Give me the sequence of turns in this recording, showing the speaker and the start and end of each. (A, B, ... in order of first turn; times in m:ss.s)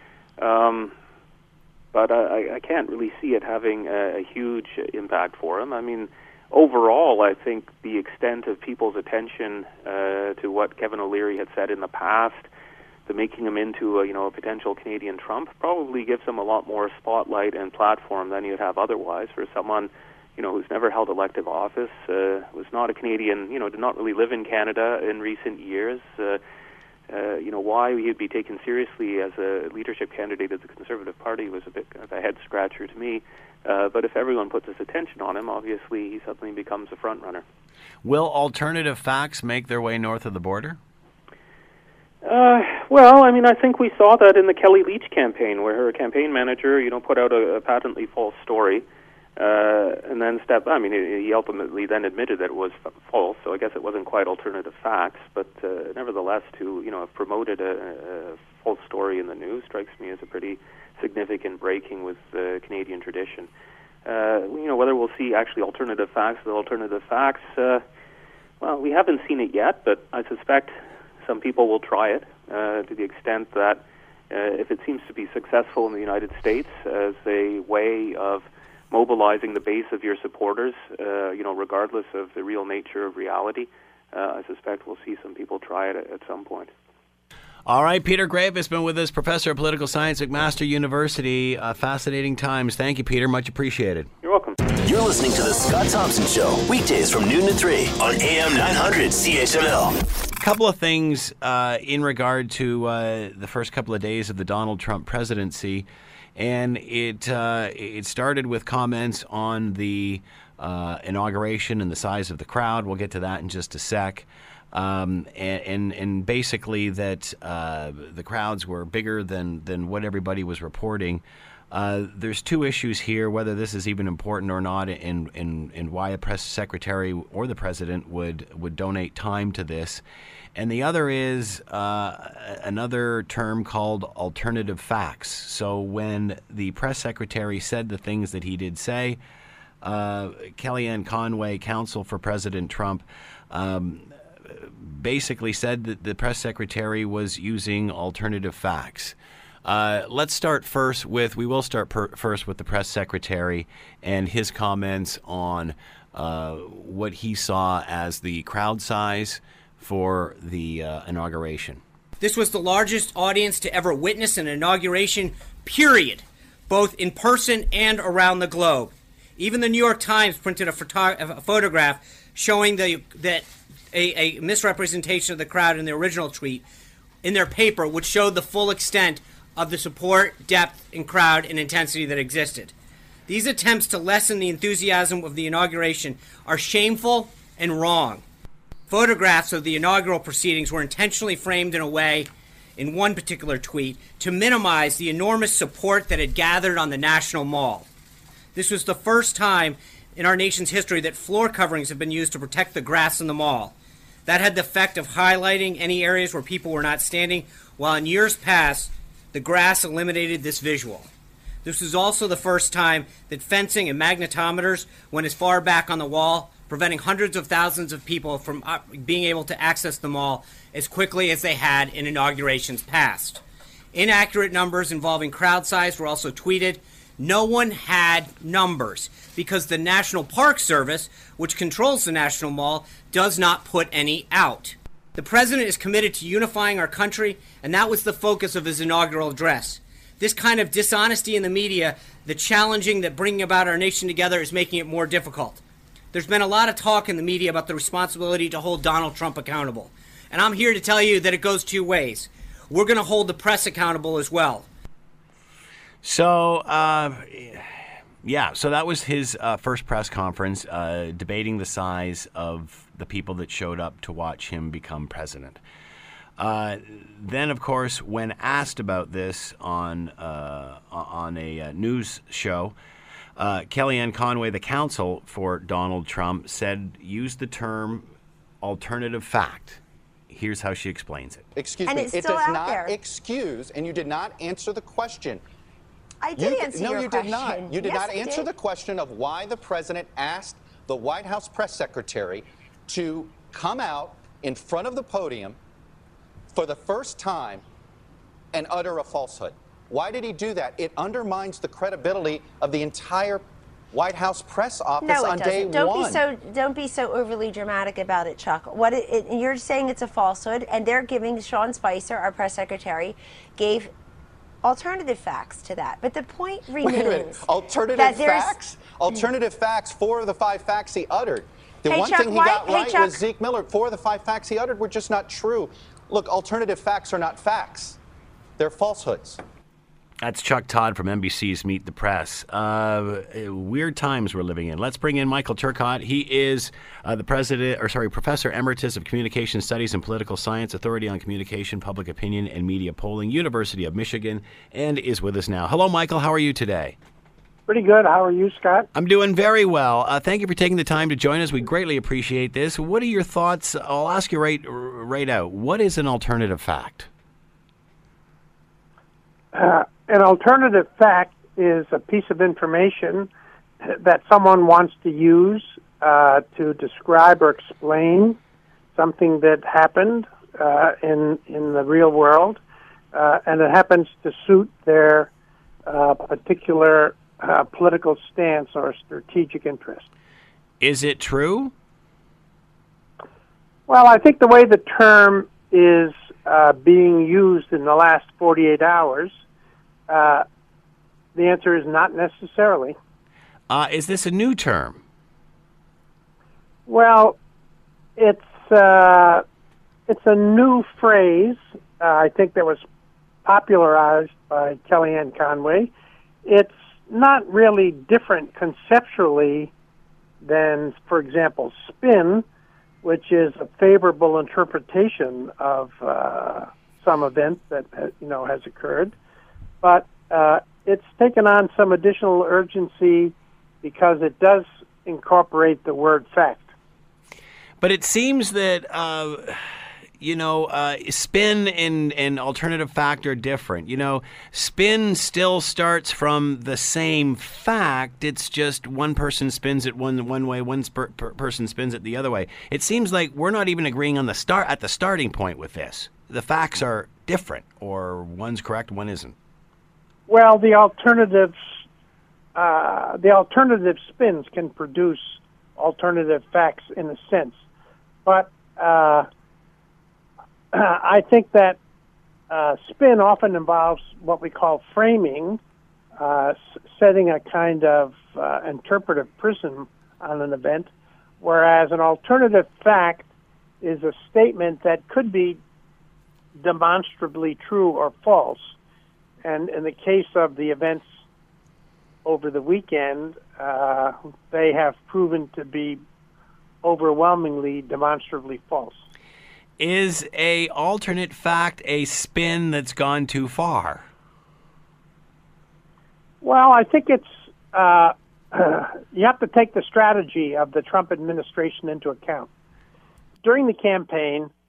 0:00.4-0:00.9 A
0:01.9-0:12.5 A
0:13.1-0:26.4 A
0:27.1-0:37.4 A
0:38.0-0:40.8 B
0:42.2-0:48.8 A
0:49.4-1:03.5 A
1:04.1-1:07.8 A
1:08.6-1:26.7 A
1:27.7-1:34.1 B
1:34.2-1:34.6 A
1:34.8-1:40.0 C
1:40.4-2:10.0 B
2:10.6-2:19.2 B
2:19.8-2:41.8 B
2:42.2-2:56.6 D
2:57.2-3:02.7 D
3:03.3-3:08.2 D
3:08.9-3:17.9 D
3:18.6-3:23.7 D
3:24.3-3:31.1 D
3:31.6-3:43.4 D
3:43.9-4:05.6 D
4:06.1-4:14.7 D
4:16.0-4:17.7 B
4:18.2-4:25.6 B
4:26.4-4:32.8 B
4:33.4-4:38.1 B
4:38.6-4:41.5 B
4:41.6-4:45.4 E
4:41.8-4:43.0 F
4:46.2-4:48.5 F
4:46.4-4:55.6 E
4:56.5-4:57.6 E
4:58.5-5:06.2 E
5:05.0-5:13.9 F
5:14.6-5:18.6 F
5:16.8-5:28.0 E
5:21.9-5:23.2 F
5:28.6-5:29.4 E
5:30.2-5:47.0 B
5:47.7-5:48.9 G
5:49.0-5:57.1 B
5:59.5-6:03.3 G
6:03.8-6:08.4 G
6:09.0-6:12.6 G
6:13.1-6:15.3 G
6:15.9-6:20.1 G
6:20.8-6:21.7 B
6:23.9-6:29.3 G
6:30.1-6:30.4 G
6:31.4-6:33.0 G
6:33.7-6:35.0 B
6:36.9-6:37.4 G
6:38.2-6:39.4 G
6:40.1-6:42.8 G
6:43.4-6:45.9 G
6:46.4-6:49.7 G
6:50.4-6:52.4 G
6:53.0-6:59.2 G
6:59.8-7:06.7 G
7:07.8-7:09.6 B
7:10.2-7:29.4 B
7:30.3-7:31.6 G
7:32.6-7:37.6 G
7:38.2-7:39.3 G
7:40.7-7:41.8 G
7:42.5-7:45.6 G
7:46.2-7:53.3 G
7:53.8-7:55.6 G
7:56.6-7:58.7 G
7:59.4-8:01.1 G
8:02.2-8:06.0 G
8:06.8-8:09.0 G
8:09.8-8:14.0 B
8:16.4-8:22.5 G
8:23.4-8:24.5 G